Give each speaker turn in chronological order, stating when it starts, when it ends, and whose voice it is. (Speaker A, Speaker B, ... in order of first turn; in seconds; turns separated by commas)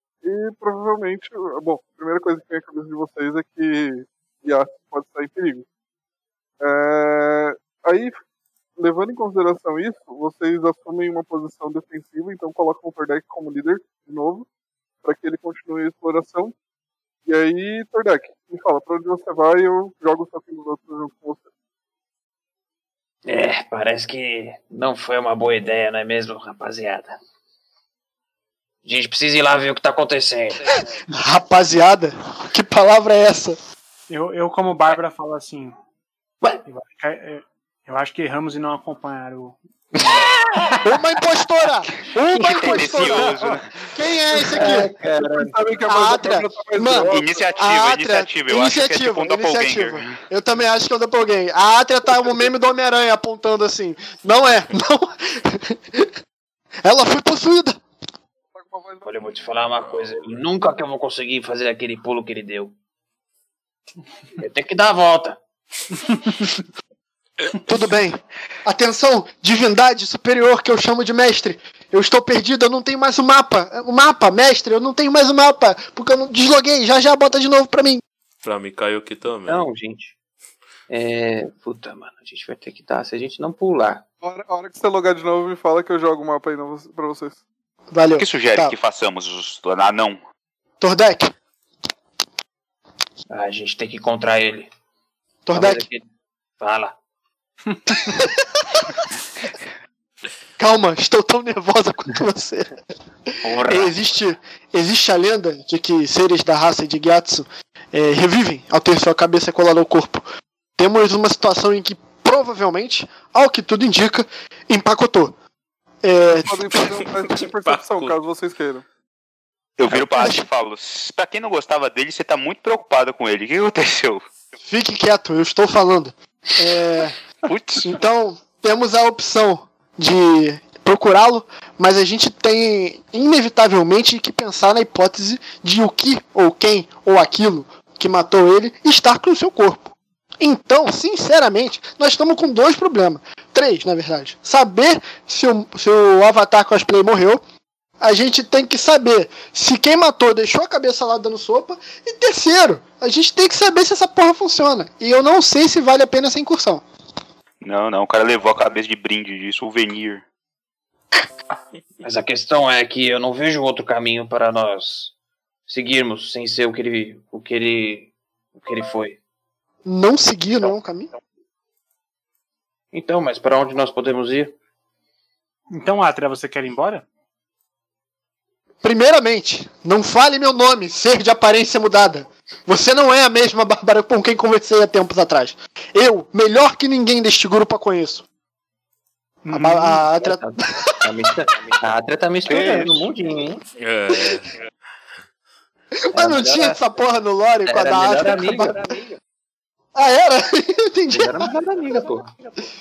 Speaker A: 0.2-5.6, Speaker A: 6.6-8.1, Speaker A: 8.8-14.4, Speaker A: 15.0-16.5, Speaker A: 17.3-21.5, Speaker B: 23.2-27.2, Speaker B: 28.8-30.8, Speaker C: 31.1-33.6, Speaker D: 34.1-35.8, Speaker D: 36.6-40.2, Speaker B: 39.9-41.0, Speaker C: 40.8-43.4, Speaker B: 42.3-43.3, Speaker E: 42.4-43.9, Speaker C: 43.9-44.9, Speaker B: 44.3-45.8, Speaker A: 45.1-47.5, Speaker C: 45.8-56.1, Speaker E: 46.9-50.1, Speaker C: 56.8-57.8, Speaker A: 58.5-59.1, Speaker B: 59.0-62.7, Speaker B: 64.4-65.4, Speaker C: 67.6-78.0, Speaker F: 78.4-79.7, Speaker B: 79.5-80.2, Speaker B: 80.9-84.0, Speaker A: 84.2-87.4, Speaker C: 87.9-88.7, Speaker E: 88.2-90.2, Speaker C: 90.8-91.3, Speaker B: 93.3-94.7, Speaker C: 95.5-95.8, Speaker B: 95.5-96.0, Speaker B: 96.6-97.0, Speaker C: 97.9-99.0, Speaker C: 100.6-102.7, Speaker C: 103.3-110.2, Speaker B: 103.4-104.0, Speaker C: 110.8-115.3, Speaker C: 116.0-116.8, Speaker A: 116.5-118.8, Speaker F: 116.7-118.2, Speaker E: 119.8-124.2, Speaker C: 120.1-120.4, Speaker C: 124.6-127.2, Speaker E: 127.4-128.0, Speaker C: 127.8-147.4, Speaker C: 148.0-156.8, Speaker E: 157.6-160.2, Speaker B: 162.0-165.1, Speaker B: 165.7-169.2, Speaker C: 169.8-171.1, Speaker B: 172.9-174.6, Speaker D: 175.7-177.0, Speaker C: 178.8-188.2, Speaker D: 189.4-189.9, Speaker C: 189.5-190.9, Speaker B: 190.1-193.6, Speaker F: 193.8-194.5, Speaker C: 196.1-198.9, Speaker B: 196.1-196.8, Speaker B: 197.6-199.0, Speaker C: 199.9-202.1, Speaker B: 201.1-202.3